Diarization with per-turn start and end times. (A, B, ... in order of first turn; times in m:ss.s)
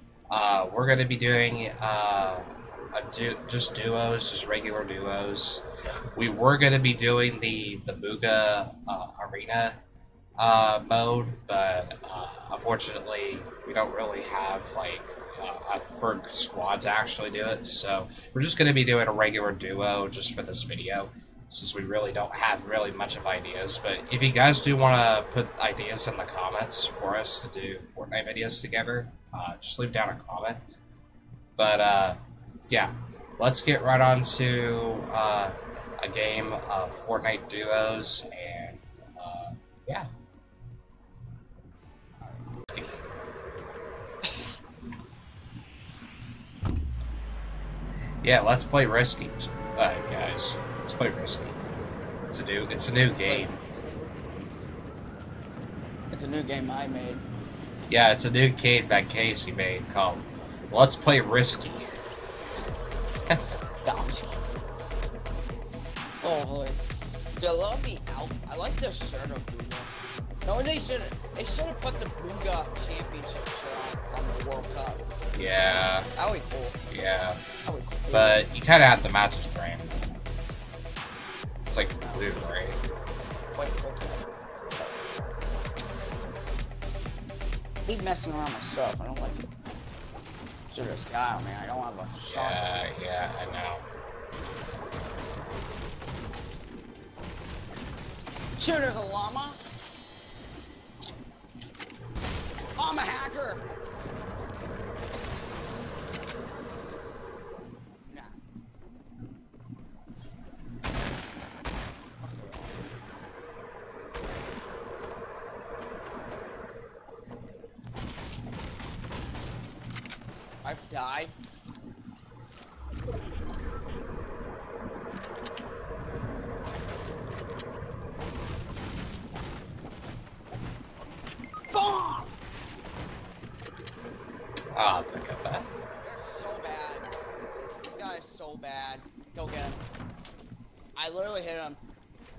0:00.3-0:05.6 A
0:06.2-0:09.8 A
0:10.4-0:30.6 A
0:31.6-0:32.2 A
0:32.7-0:40.1 A
0:42.2-0:42.5 B
0:42.7-0:43.0 A
0:44.2-0:44.6 B
0:48.2-0:51.6 A
0:52.3-0:53.6 A
0:53.2-0:54.3 B
0:56.1-0:57.2 B
0:57.9-1:01.9 A
1:03.8-1:04.4 B
1:06.2-1:06.8 B
1:07.4-1:09.9 B
1:10.4-1:15.1 B
1:15.3-1:16.1 A
1:16.2-1:16.8 B
1:16.9-1:17.4 A
1:17.6-1:18.5 B
1:18.1-1:20.2 A
1:21.7-1:22.8 A
1:22.0-1:22.3 B
1:23.6-1:25.0 B
1:27.9-1:29.4 B
1:30.7-1:32.9 B
1:32.2-1:33.8 A
1:38.6-1:39.6 B
1:42.8-1:43.6 B
1:48.1-1:48.4 B
1:52.2-1:52.8 B
2:00.6-2:01.4 B
2:11.7-2:12.4 B
2:14.7-2:15.7 A
2:16.0-2:17.1 B
2:17.8-2:19.8 B
2:21.0-2:21.8 B